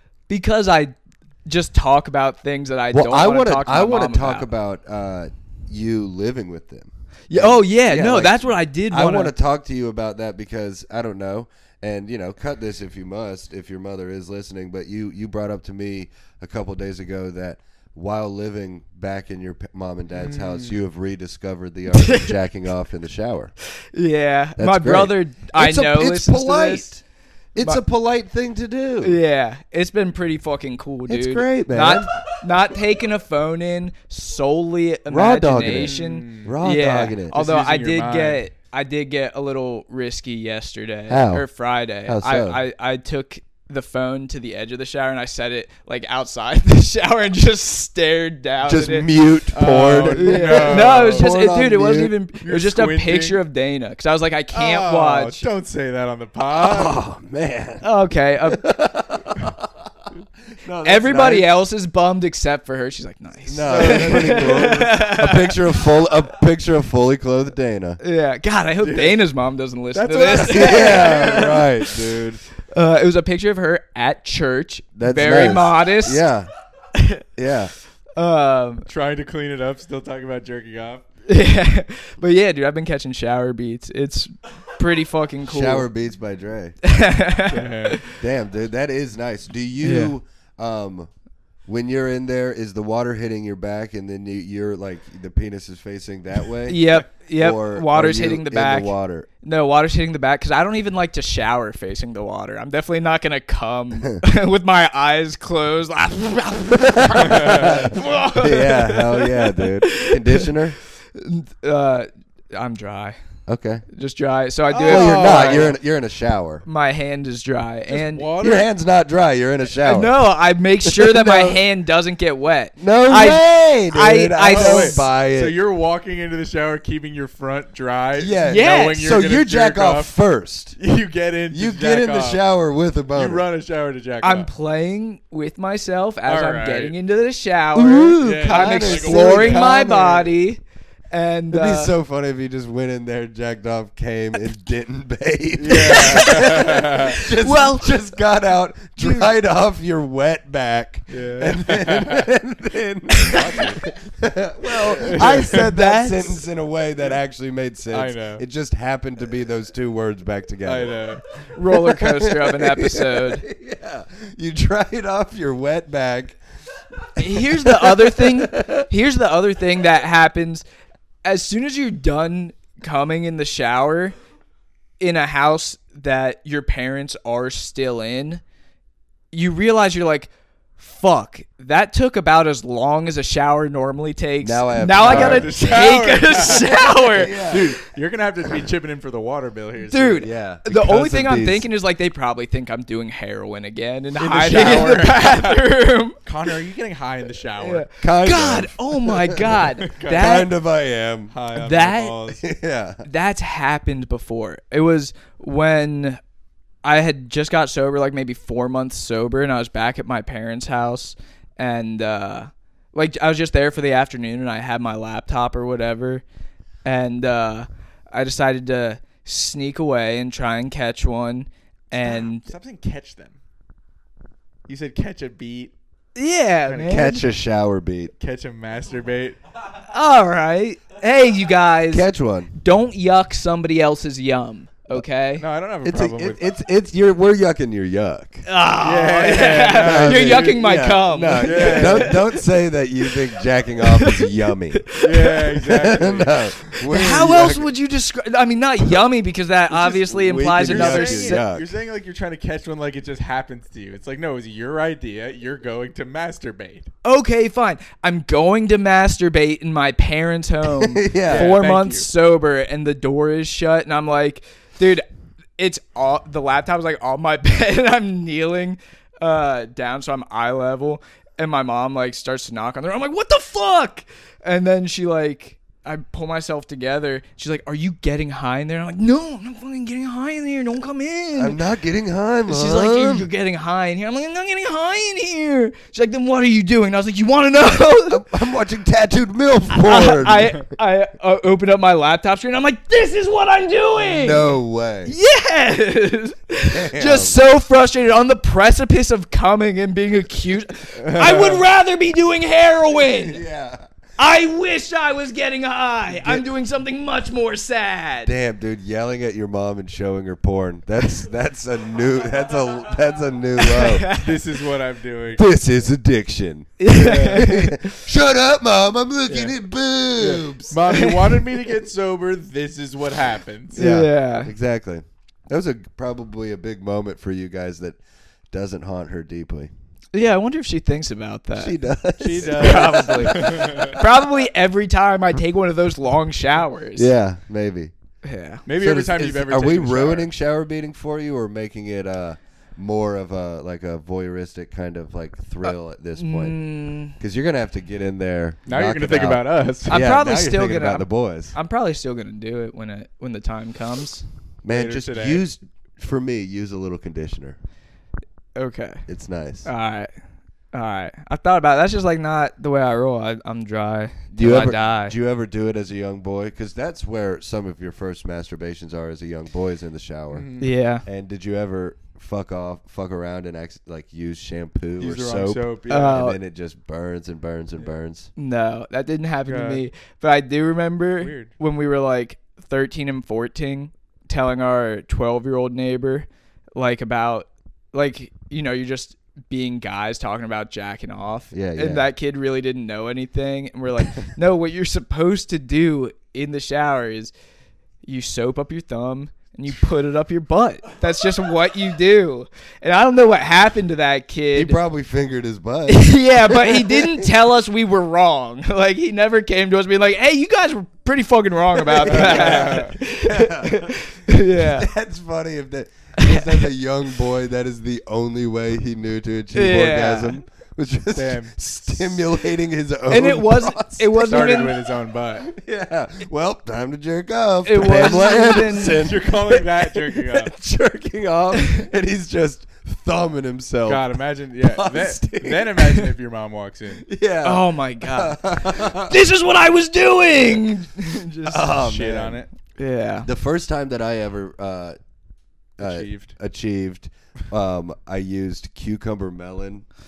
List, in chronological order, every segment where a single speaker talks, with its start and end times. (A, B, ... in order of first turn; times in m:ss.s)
0:00.3-0:04.5 A
0:02.9-0:23.5 B
0:07.3-0:09.3 A
0:20.1-0:20.8 C
0:21.9-0:22.4 A
0:23.9-0:26.9 A
0:24.6-0:27.0 B
0:27.5-0:29.2 B
0:29.0-0:49.1 A
0:31.1-0:32.1 B
0:35.1-0:37.4 B
0:35.7-0:36.6 C
0:37.3-0:38.4 C
0:41.1-0:41.5 B
0:42.0-0:42.6 B
0:48.6-0:52.1 B
0:49.5-0:51.3 C
0:50.1-0:55.4 A
0:52.4-0:53.4 C
0:54.5-0:57.0 C
0:56.5-0:57.8 B
0:57.8-0:58.7 A
0:58.5-0:59.7 B
1:00.6-1:01.5 B
1:00.8-1:05.6 A
1:03.4-1:08.0 B
1:03.6-1:04.9 C
1:08.0-1:11.9 A
1:08.8-1:09.2 C
1:09.9-1:11.6 C
1:10.3-1:12.4 B
1:12.7-1:16.3 A
1:15.0-1:16.5 B
1:16.9-1:17.2 A
1:17.4-1:17.7 B
1:18.2-1:18.9 A
1:18.9-1:21.0 C
1:21.2-1:25.9 A
1:25.5-1:26.8 B
1:26.8-1:28.1 A
1:27.4-1:28.0 C
1:28.1-1:31.1 B
1:29.8-1:30.1 A
1:31.7-1:39.3 B
1:36.7-1:50.5 A
1:46.8-1:50.8 B
1:47.3-1:47.7 C
1:51.1-1:53.2 A
1:53.5-1:53.8 B
1:53.9-1:55.7 A
1:54.7-1:55.8 C
1:54.8-1:56.6 B
1:56.6-1:58.2 A
1:57.9-1:58.7 C
1:58.4-2:00.2 B
1:59.8-2:05.1 A
2:00.8-2:01.6 B
2:02.8-2:05.6 B
2:04.5-2:10.1 C
2:08.2-2:10.8 B
2:08.4-2:09.1 A
2:10.8-2:12.4 C
2:11.5-2:13.4 B
2:13.1-2:14.5 C
2:14.2-2:21.9 A
2:16.2-2:16.9 C
2:17.7-2:20.3 B
2:18.2-2:20.0 C
2:21.5-2:41.0 B
2:25.6-2:27.2 C
2:25.8-2:28.0 A
2:29.0-2:29.3 A
2:31.1-2:32.3 C
2:33.2-2:33.6 A
2:35.0-2:36.3 C
2:35.0-2:36.1 A
2:37.9-2:38.4 C
2:40.6-2:41.2 C
2:41.5-2:43.4 A
2:41.7-2:46.4 B
2:46.9-2:48.9 B
2:47.2-2:50.6 A
2:51.2-2:54.1 A
2:55.0-2:58.4 A
2:59.3-3:07.6 A
3:04.4-3:06.0 B
3:05.0-3:10.3 C
3:07.1-3:07.8 B
3:09.9-3:16.2 A
3:10.2-3:11.7 B
3:14.2-3:15.7 C
3:16.2-3:17.9 C
3:17.6-3:20.5 A
3:18.0-3:19.6 B
3:19.9-3:20.3 C
3:20.1-3:21.3 B
3:21.3-3:22.4 C
3:21.5-3:22.2 A
3:22.4-3:23.0 B
3:23.0-3:26.2 A
3:26.8-3:36.2 A
3:36.8-3:42.5 A
3:42.0-3:43.4 C
3:44.7-3:45.7 C
3:46.2-3:47.2 A
3:46.7-3:47.0 C
3:46.8-3:48.1 B
3:48.2-3:49.4 C
3:49.9-3:55.4 A
3:51.9-3:52.5 B
3:55.4-3:56.4 C
3:55.8-3:58.4 B
3:58.4-4:02.2 A
3:58.8-4:00.6 C
3:59.7-4:04.9 B
4:01.4-4:02.2 C
4:03.9-4:05.6 A
4:05.0-4:06.5 C
4:05.6-4:07.7 B
4:06.8-4:11.4 A
4:09.7-4:11.7 B
4:10.6-4:16.9 C
4:17.0-4:25.0 A
4:20.6-4:21.5 B
4:21.2-4:22.1 C
4:25.6-4:41.6 A
4:41.4-4:43.3 B
4:42.5-4:48.2 A
4:48.1-4:50.6 B
4:49.7-5:03.4 A
4:54.0-4:55.1 B
4:56.6-4:57.4 B
5:01.0-5:01.6 C
5:03.0-5:03.8 B
5:04.2-5:08.3 A
5:06.1-5:06.4 B
5:08.2-5:14.1 B
5:13.6-5:14.4 A
5:14.1-5:15.4 C
5:15.4-5:20.8 B
5:16.8-5:18.0 A
5:16.9-5:17.5 C
5:19.3-5:19.5 C
5:20.2-5:23.8 C
5:20.9-5:21.4 A
5:23.7-5:28.0 B
5:23.7-5:24.5 A
5:28.5-5:29.7 B
5:30.1-5:31.8 A
5:31.6-5:34.2 B
5:32.2-5:34.0 C
5:32.4-5:37.1 A
5:37.0-5:37.9 B
5:38.2-5:38.6 A
5:38.6-5:40.3 C
5:38.8-5:46.6 B
5:45.6-5:47.2 A
5:47.1-5:51.5 B
5:48.7-5:50.0 C
5:49.9-5:54.2 A
5:54.6-5:57.6 B
5:54.7-5:55.4 C
5:58.6-5:59.0 A
5:59.1-5:59.7 B
5:59.6-6:00.1 A
6:00.7-6:05.1 A
6:04.3-6:10.5 B
6:10.3-6:10.7 C
6:10.6-6:11.0 A
6:11.0-6:18.3 B
6:15.0-6:16.2 C
6:15.9-6:16.4 A
6:18.4-6:37.3 A
6:19.5-6:19.8 C
6:21.2-6:21.5 C
6:31.5-6:32.1 B
6:38.0-6:44.8 A
6:44.5-6:47.3 B
6:45.9-6:54.9 A
6:51.9-7:04.8 B
6:52.0-6:53.0 C
6:56.2-6:56.7 A
6:59.5-7:00.4 A
7:01.1-7:02.0 C
7:03.1-7:04.7 A
7:04.2-7:05.5 C
7:05.4-7:14.0 B
7:07.6-7:09.1 A
7:08.9-7:10.5 C
7:11.5-7:11.8 A
7:13.8-7:17.0 C
7:14.6-7:16.1 B
7:17.0-7:19.2 B
7:17.4-7:21.8 A
7:21.5-7:22.4 B
7:21.7-7:22.5 C
7:22.8-7:23.3 A
7:23.2-7:25.0 B
7:25.8-7:29.8 B
7:25.8-7:26.3 C